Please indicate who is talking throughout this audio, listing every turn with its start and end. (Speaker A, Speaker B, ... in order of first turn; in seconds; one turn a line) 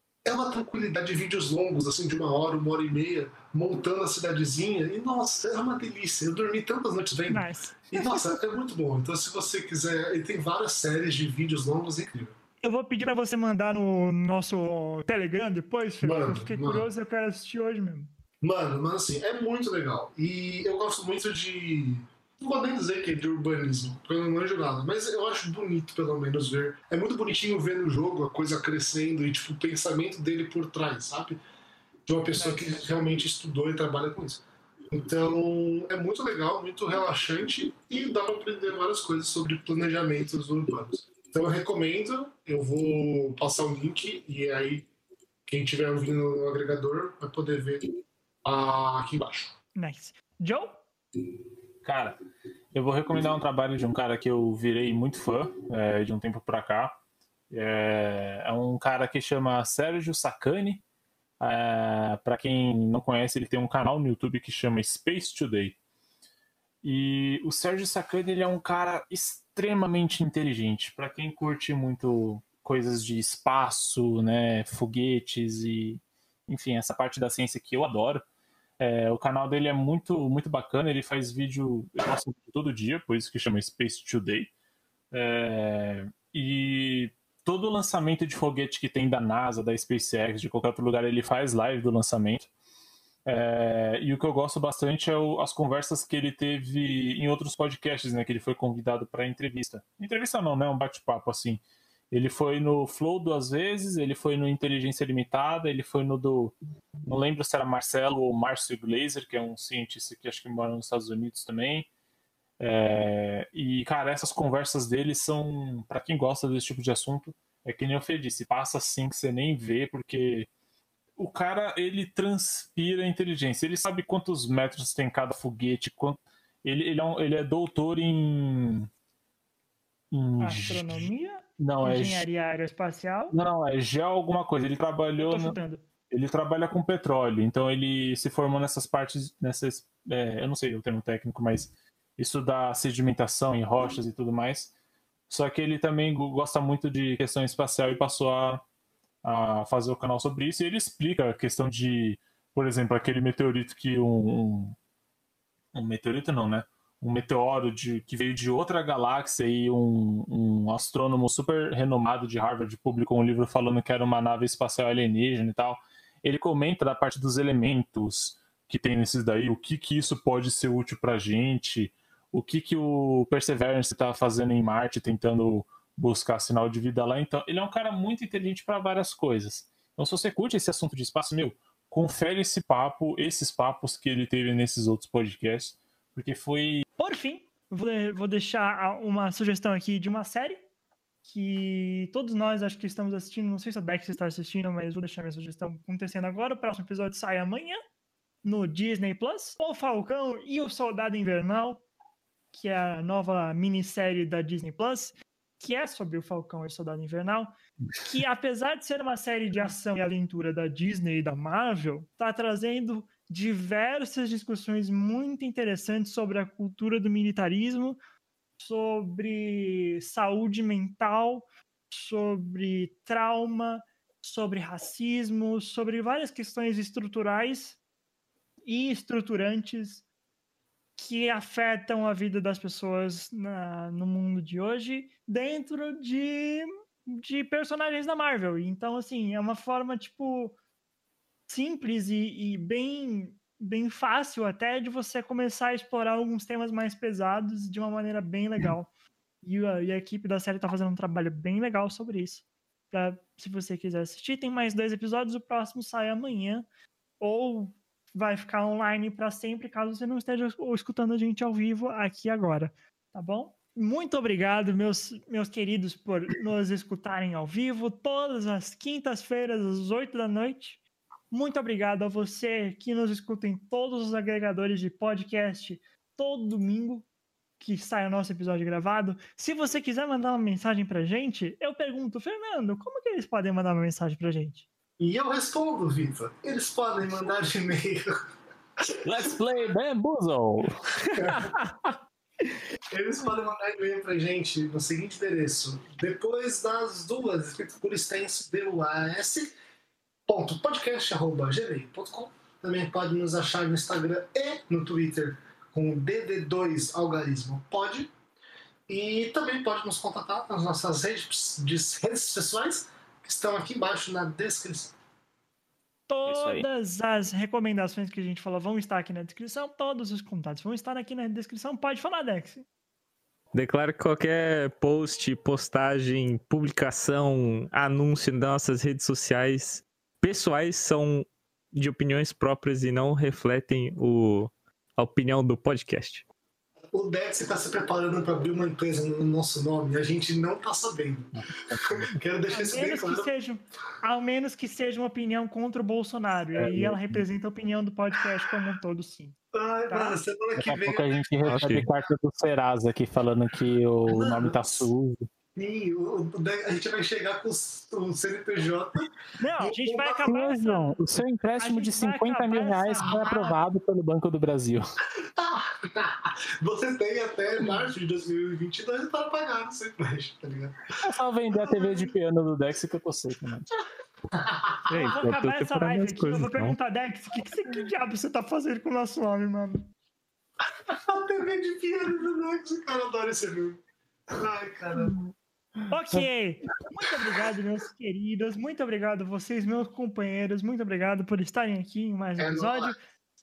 Speaker A: 0.2-12.3
Speaker B: 7.3-7.8
Speaker B: 12.6-18.1
Speaker A: 16.0-16.9
Speaker A: 18.4-31.4
Speaker A: 32.0-44.9
Speaker B: 32.4-32.8
Speaker A: 45.5-47.9
Speaker A: 48.4-49.5
Speaker B: 49.8-50.8
Speaker C: 51.8-52.2
Speaker C: 52.7-57.0
Speaker C: 57.5-60.8
Speaker C: 61.4-65.8
Speaker C: 66.8-78.2
Speaker C: 78.8-84.5
Speaker C: 85.1-92.5
Speaker C: 93.2-106.5
Speaker C: 107.0-111.9
Speaker C: 112.6-120.5
Speaker C: 121.2-128.9
Speaker C: 130.1-131.1
Speaker B: 130.4-133.3
Speaker C: 131.6-132.2
Speaker C: 133.3-135.6
Speaker B: 135.2-135.8
Speaker C: 136.1-144.7
Speaker C: 145.3-148.6
Speaker C: 149.2-154.8
Speaker C: 155.7-186.8
Speaker B: 187.0-190.6
Speaker B: 191.2-197.8
Speaker B: 198.4-201.8
Speaker B: 202.5-218.0
Speaker B: 218.6-227.8
Speaker B: 228.7-230.0
Speaker B: 230.9-240.5
Speaker B: 241.5-248.9
Speaker B: 249.4-256.6
Speaker B: 257.2-270.8
Speaker B: 271.3-277.1
Speaker B: 277.6-284.6
Speaker A: 285.0-288.1
Speaker C: 289.0-291.5
Speaker A: 291.2-291.5
Speaker A: 292.9-299.5
Speaker A: 300.3-308.1
Speaker A: 308.9-314.9
Speaker B: 316.1-322.6
Speaker C: 316.3-316.6
Speaker D: 323.5-336.2
Speaker A: 336.9-343.3
Speaker C: 341.3-342.1
Speaker B: 342.5-349.4
Speaker C: 346.5-347.2
Speaker A: 349.5-351.7
Speaker B: 349.9-350.2
Speaker C: 350.6-355.3
Speaker D: 351.4-351.9
Speaker A: 354.1-354.9
Speaker A: 355.6-360.2
Speaker B: 359.4-361.0
Speaker C: 360.2-364.9
Speaker B: 361.6-363.6
Speaker A: 365.2-370.8
Speaker C: 371.0-373.7
Speaker A: 371.5-372.1
Speaker A: 374.3-375.1
Speaker D: 374.9-376.8
Speaker B: 375.0-379.9
Speaker A: 380.9-385.2
Speaker B: 385.9-393.0
Speaker A: 392.4-392.9